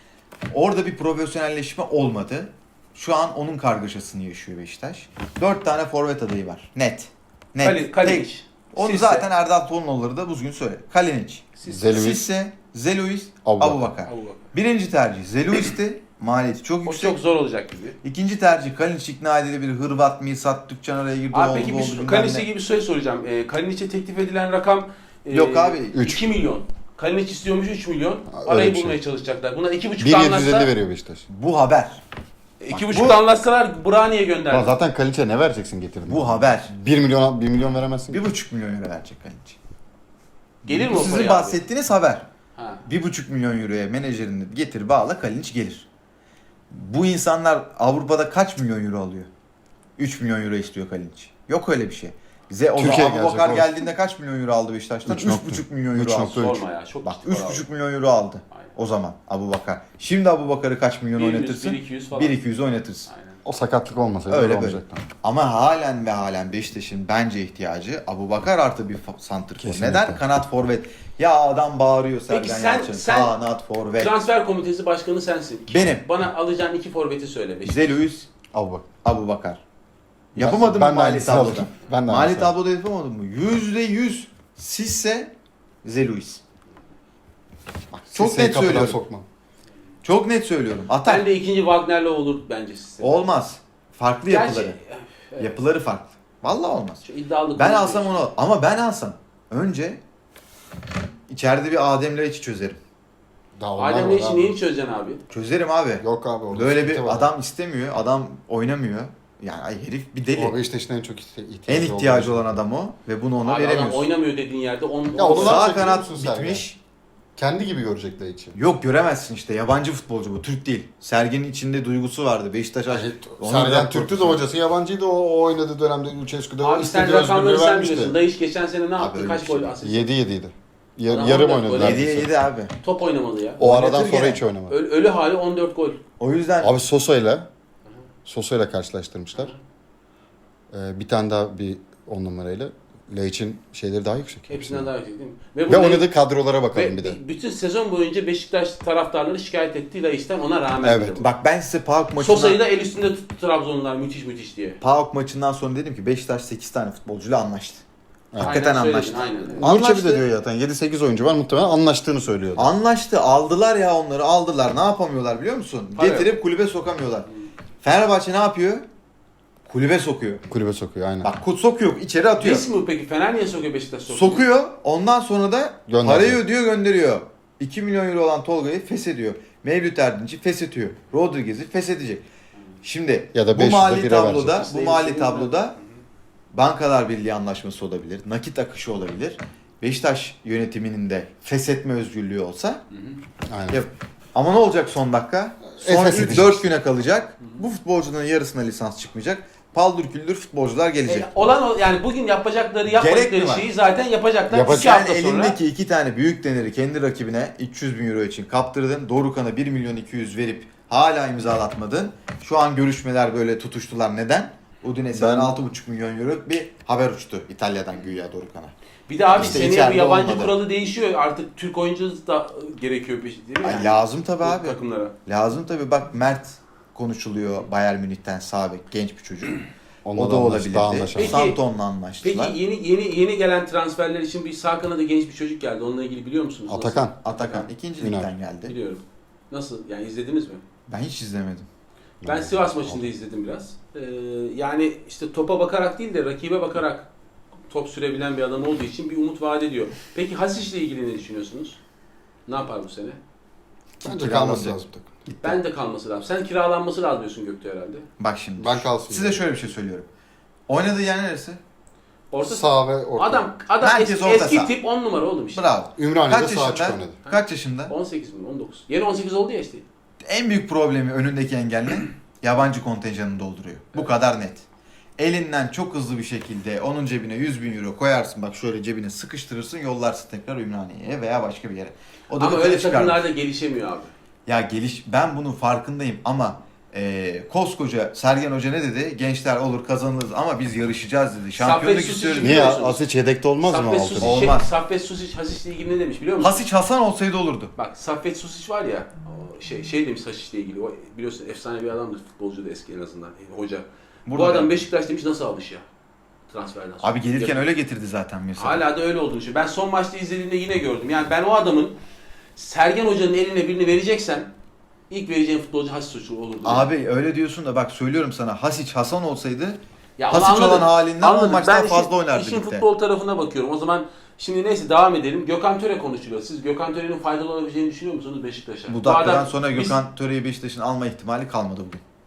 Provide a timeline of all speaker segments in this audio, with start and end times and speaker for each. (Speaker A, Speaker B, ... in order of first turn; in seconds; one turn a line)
Speaker A: 0.5-17.2
Speaker B: 7.6-9.3
Speaker B: 11.6-12.0
Speaker C: 11.7-12.3
Speaker C: 13.5-13.9
Speaker B: 14.1-14.5
Speaker B: 16.9-18.0
Speaker A: 18.0-22.5
Speaker B: 21.3-30.7
Speaker A: 25.3-26.1
Speaker C: 25.9-26.2
Speaker C: 28.3-29.0
Speaker C: 30.0-31.2
Speaker A: 31.3-32.0
Speaker B: 32.6-34.7
Speaker A: 32.7-33.2
Speaker C: 34.5-38.2
Speaker A: 36.1-36.7
Speaker A: 38.1-39.6
Speaker A: 40.6-42.3
Speaker B: 40.7-41.6
Speaker B: 42.6-42.8
Speaker A: 42.9-45.9
Speaker A: 46.7-49.3
Speaker A: 50.0-56.5
Speaker C: 52.8-53.7
Speaker C: 55.1-56.6
Speaker B: 56.3-57.6
Speaker A: 57.0-63.1
Speaker B: 61.1-62.4
Speaker B: 63.1-63.4
Speaker C: 63.5-65.0
Speaker A: 64.3-74.2
Speaker C: 69.6-70.2
Speaker B: 72.3-73.3
Speaker B: 74.0-77.9
Speaker A: 75.7-76.1
Speaker A: 77.7-78.3
Speaker C: 78.5-78.8
Speaker A: 79.0-79.6
Speaker A: 80.3-85.3
Speaker C: 80.4-82.5
Speaker A: 85.8-86.4
Speaker C: 87.9-89.2
Speaker A: 88.1-89.0
Speaker A: 90.0-91.3
Speaker B: 91.0-93.3
Speaker A: 93.0-94.8
Speaker B: 94.3-95.6
Speaker A: 95.4-97.0
Speaker B: 97.0-98.2
Speaker A: 97.6-100.0
Speaker A: 101.3-102.8
Speaker C: 103.6-104.6
Speaker B: 103.8-105.2
Speaker A: 105.3-110.5
Speaker C: 106.0-107.3
Speaker C: 110.3-112.5
Speaker A: 111.7-114.1
Speaker B: 113.4-115.8
Speaker C: 115.2-116.7
Speaker A: 115.3-116.8
Speaker C: 117.4-118.6
Speaker A: 118.5-124.4
Speaker C: 122.9-128.2
Speaker B: 126.6-130.1
Speaker A: 129.0-129.7
Speaker C: 129.8-132.3
Speaker B: 131.1-132.1
Speaker A: 131.7-132.7
Speaker B: 132.8-133.6
Speaker A: 133.6-134.4
Speaker C: 133.6-134.8
Speaker B: 134.7-136.0
Speaker A: 136.2-136.8
Speaker C: 136.6-137.5
Speaker C: 138.3-139.5
Speaker C: 140.7-144.9
Speaker B: 144.5-146.1
Speaker C: 145.7-147.2
Speaker B: 146.7-151.3
Speaker C: 150.8-151.2
Speaker A: 151.2-152.6
Speaker B: 152.2-154.8
Speaker A: 154.8-157.8
Speaker B: 158.4-159.7
Speaker A: 158.4-160.3
Speaker C: 159.6-162.7
Speaker A: 162.6-167.3
Speaker B: 165.9-166.4
Speaker A: 167.8-168.8
Speaker A: 169.7-170.4
Speaker C: 170.5-171.3
Speaker A: 171.2-172.7
Speaker B: 172.4-174.4
Speaker A: 174.1-182.2
Speaker C: 175.9-176.4
Speaker A: 182.8-185.8
Speaker C: 183.3-184.6
Speaker B: 184.6-185.6
Speaker A: 186.5-192.8
Speaker B: 192.9-193.2
Speaker C: 193.5-193.8
Speaker A: 193.7-201.3
Speaker C: 195.8-196.6
Speaker B: 201.1-205.6
Speaker A: 202.9-203.7
Speaker C: 204.5-204.9
Speaker A: 204.7-218.7
Speaker C: 215.1-215.6
Speaker B: 219.1-225.1
Speaker A: 219.3-220.6
Speaker A: 223.6-229.6
Speaker C: 230.1-231.4
Speaker A: 230.2-232.6
Speaker B: 231.2-231.6
Speaker B: 232.2-237.7
Speaker C: 236.7-237.2
Speaker A: 237.2-238.7
Speaker C: 238.0-238.3
Speaker B: 238.7-240.6
Speaker A: 240.9-241.7
Speaker C: 242.2-243.0
Speaker B: 242.2-247.1
Speaker B: 247.7-251.8
Speaker B: 252.5-253.2
Speaker A: 254.0-254.8
Speaker C: 254.0-255.3
Speaker B: 255.4-258.1
Speaker A: 258.2-260.1
Speaker C: 258.6-259.4
Speaker A: 260.7-261.6
Speaker B: 262.3-265.6
Speaker C: 262.5-263.4
Speaker A: 263.8-264.7
Speaker A: 265.6-267.9
Speaker C: 266.0-267.2
Speaker B: 267.3-269.9
Speaker A: 270.2-274.6
Speaker A: 275.2-283.3
Speaker B: 282.4-284.1
Speaker A: 284.5-292.8
Speaker B: 291.6-293.0
Speaker C: 292.4-294.4
Speaker B: 293.6-296.6
Speaker A: 294.2-294.7
Speaker A: 296.4-297.7
Speaker B: 297.8-305.8
Speaker A: 304.3-304.8
Speaker B: 306.5-307.7
Speaker A: 307.0-308.9
Speaker B: 308.6-312.0
Speaker B: 312.6-314.5
Speaker B: 315.1-316.9
Speaker A: 316.6-322.9
Speaker B: 320.2-330.0
Speaker A: 328.9-332.0